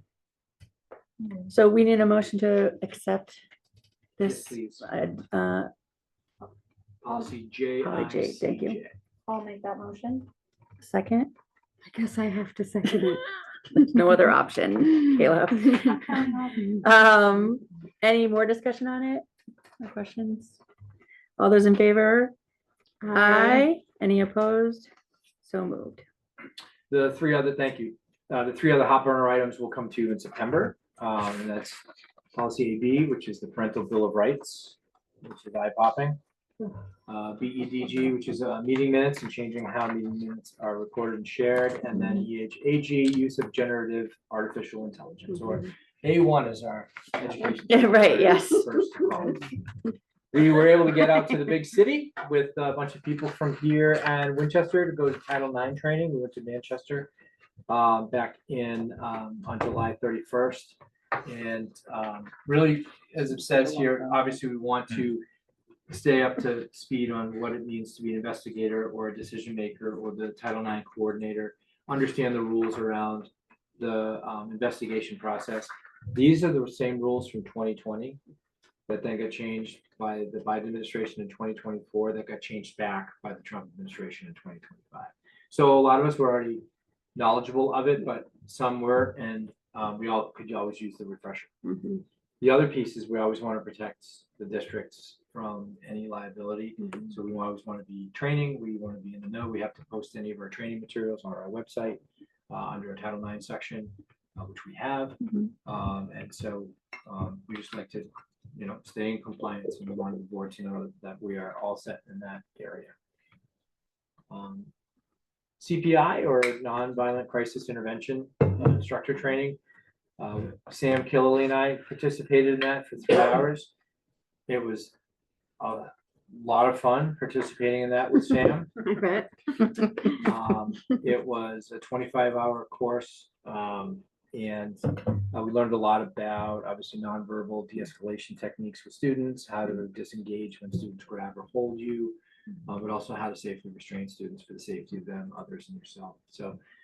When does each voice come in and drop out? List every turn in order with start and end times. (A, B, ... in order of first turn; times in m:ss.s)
0:01.2-0:01.5 A
0:01.5-0:03.4 B
0:04.2-0:05.7 B
0:04.2-0:04.9 C
0:07.0-0:09.0 C
0:07.8-0:08.8 B
0:09.3-0:10.3 A
0:10.8-0:11.3 B
0:11.8-0:13.2 D
0:13.8-0:16.0 B
0:15.8-0:16.8 A
0:16.6-0:19.2 B
0:19.8-0:20.6 B
0:21.4-0:22.3 B
0:23.0-0:23.7 D
0:23.1-0:24.9 B
0:25.4-0:26.0 B
0:26.9-0:31.8 C
0:32.3-0:36.2 C
0:37.1-0:49.5 C
0:47.7-0:48.7 B
0:50.3-0:57.1 C
0:57.7-1:05.2 C
1:03.4-1:04.4 B
1:05.9-1:18.2 C
1:18.9-1:31.8 C
1:32.4-1:52.9 C
1:54.3-1:54.7 C
1:55.6-1:59.6 C
2:00.2-2:03.7 C
2:04.5-2:04.9 C
2:05.6-2:08.8 C
2:08.8-2:09.3 D
2:10.2-2:26.6 C